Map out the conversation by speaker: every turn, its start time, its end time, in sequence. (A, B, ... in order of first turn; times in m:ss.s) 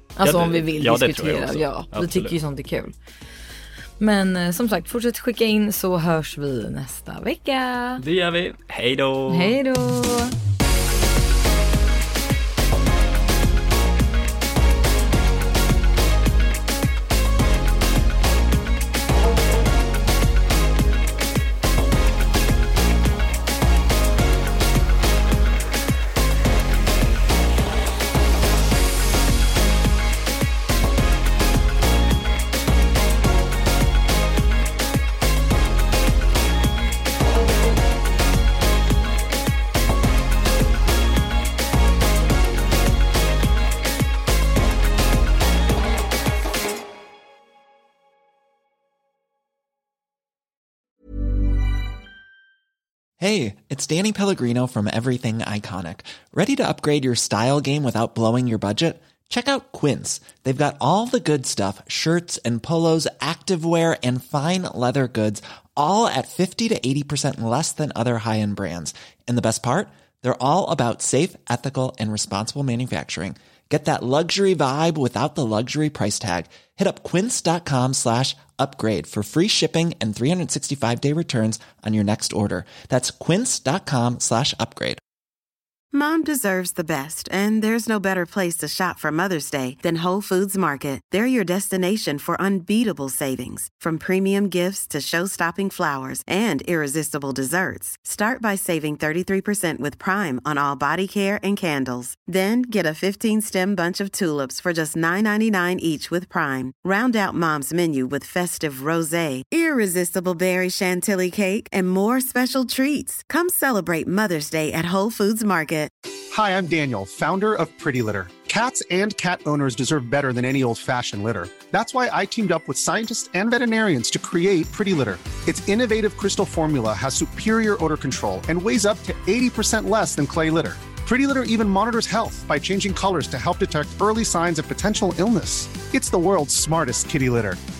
0:00.2-0:02.9 A
0:00.2-0:02.4 B
0:04.0-0:08.0 A
0:08.0-0:09.6 B
0:09.3-0:10.3 A
0:53.2-1:25.0 C
1:25.9-1:55.9 D
1:56.3-2:17.6 E